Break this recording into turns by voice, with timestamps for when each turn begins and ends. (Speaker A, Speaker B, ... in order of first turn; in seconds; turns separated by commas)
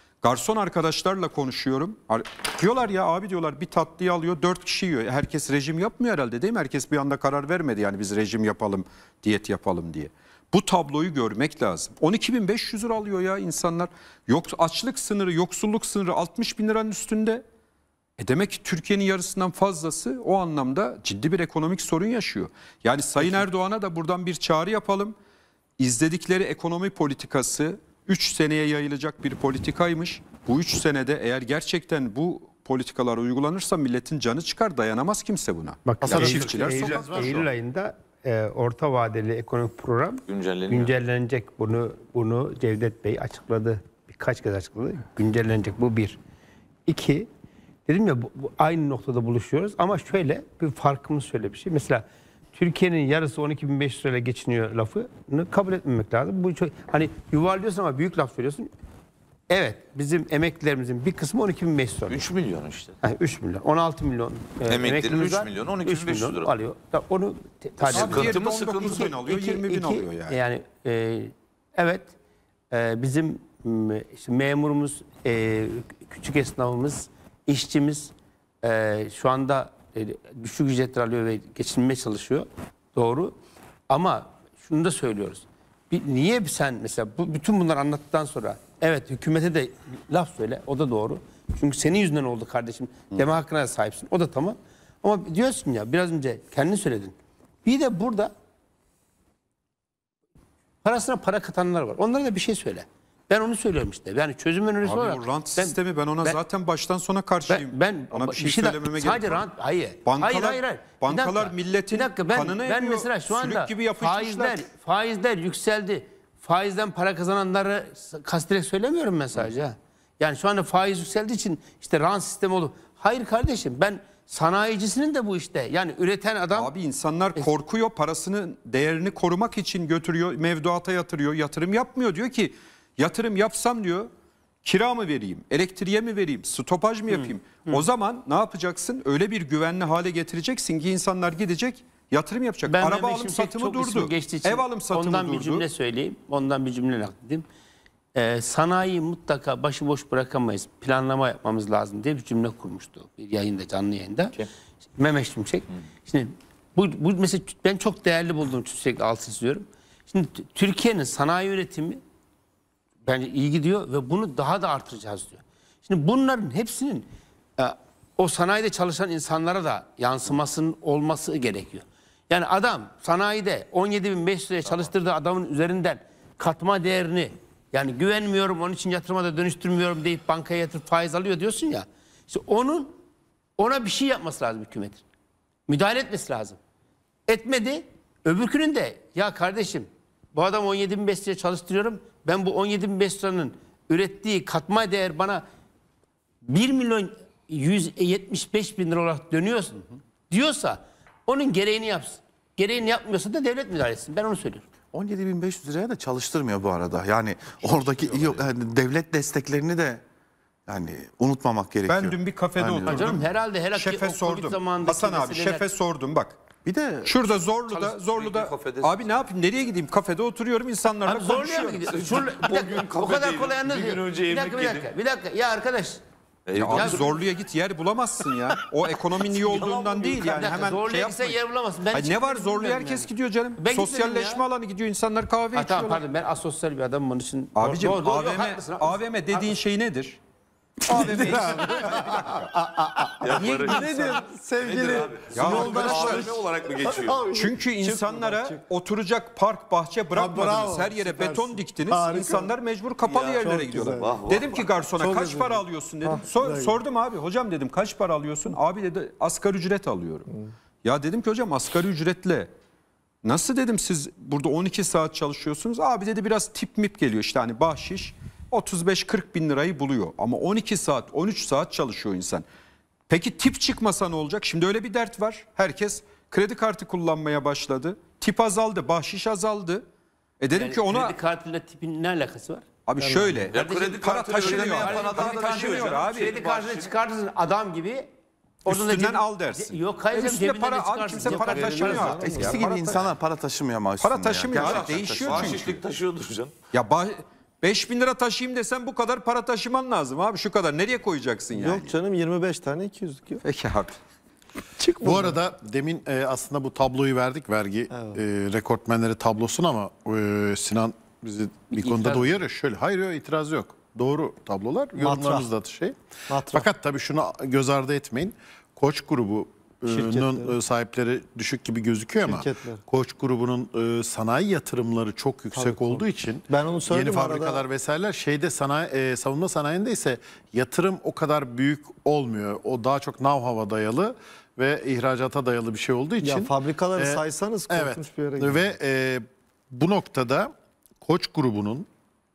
Speaker A: 0.2-17.4, Speaker A: 18.2-25.2, Speaker A: 25.8-37.5, Speaker B: 35.9-46.2, Speaker C: 36.0-37.5, Speaker D: 40.3-40.9, Speaker B: 46.9-47.3, Speaker B: 47.9-52.0, Speaker B: 52.5-58.7, Speaker B: 59.5-62.2, Speaker D: 62.1-63.0, Speaker B: 63.0-72.1, Speaker D: 64.7-66.5, Speaker D: 67.9-69.0, Speaker A: 67.9-70.4, Speaker B: 72.7-78.1, Speaker B: 78.6-83.3, Speaker B: 83.9-98.3, Speaker B: 100.8-106.4, Speaker A: 104.8-109.5, Speaker B: 107.5-126.7, Speaker A: 110.0-114.6, Speaker A: 126.6-134.1, Speaker A: 134.6-145.7, Speaker B: 137.1-137.8, Speaker B: 142.7-147.4, Speaker B: 148.2-154.4, Speaker B: 155.0-162.0, Speaker B: 163.1-183.0, Speaker B: 183.6-185.0, Speaker B: 185.7-186.6, Speaker B: 187.3-195.4, Speaker B: 196.5-204.7, Speaker E: 204.9-210.0, Speaker E: 210.7-213.2, Speaker A: 211.9-216.4, Speaker B: 212.9-215.7, Speaker E: 216.7-217.2, Speaker A: 217.1-222.1, Speaker B: 217.7-218.0, Speaker D: 218.1-219.0, Speaker B: 221.1-226.0, Speaker D: 221.9-224.9, Speaker D: 226.5-227.1, Speaker A: 226.6-236.0, Speaker B: 226.7-227.2, Speaker B: 229.3-234.5, Speaker B: 235.6-239.5, Speaker A: 237.6-240.2, Speaker A: 240.9-242.5, Speaker F: 240.9-248.6, Speaker D: 243.2-247.2, Speaker A: 243.3-244.2, Speaker A: 245.3-246.4, Speaker A: 247.3-260.3, Speaker F: 250.1-252.5, Speaker D: 253.1-253.4, Speaker F: 253.3-256.8, Speaker D: 254.0-254.6, Speaker A: 260.8-262.5, Speaker A: 263.2-272.4, Speaker A: 273.1-279.9, Speaker A: 280.4-281.2, Speaker B: 280.5-282.7, Speaker A: 282.9-286.4, Speaker F: 283.0-283.5, Speaker B: 283.5-288.1, Speaker D: 283.5-286.9, Speaker A: 288.6-293.1, Speaker B: 288.7-292.7, Speaker F: 291.2-292.6, Speaker E: 291.4-295.8, Speaker A: 294.0-295.8, Speaker D: 294.5-296.5, Speaker A: 296.7-302.0, Speaker F: 301.5-303.4, Speaker A: 303.4-304.0, Speaker F: 304.8-305.4, Speaker C: 305.0-316.0, Speaker B: 311.7-312.4, Speaker F: 314.9-315.5, Speaker F: 316.3-316.7, Speaker C: 316.5-340.5, Speaker F: 319.9-320.5, Speaker F: 322.2-322.8, Speaker F: 325.5-327.6, Speaker F: 336.2-338.7, Speaker C: 341.0-341.9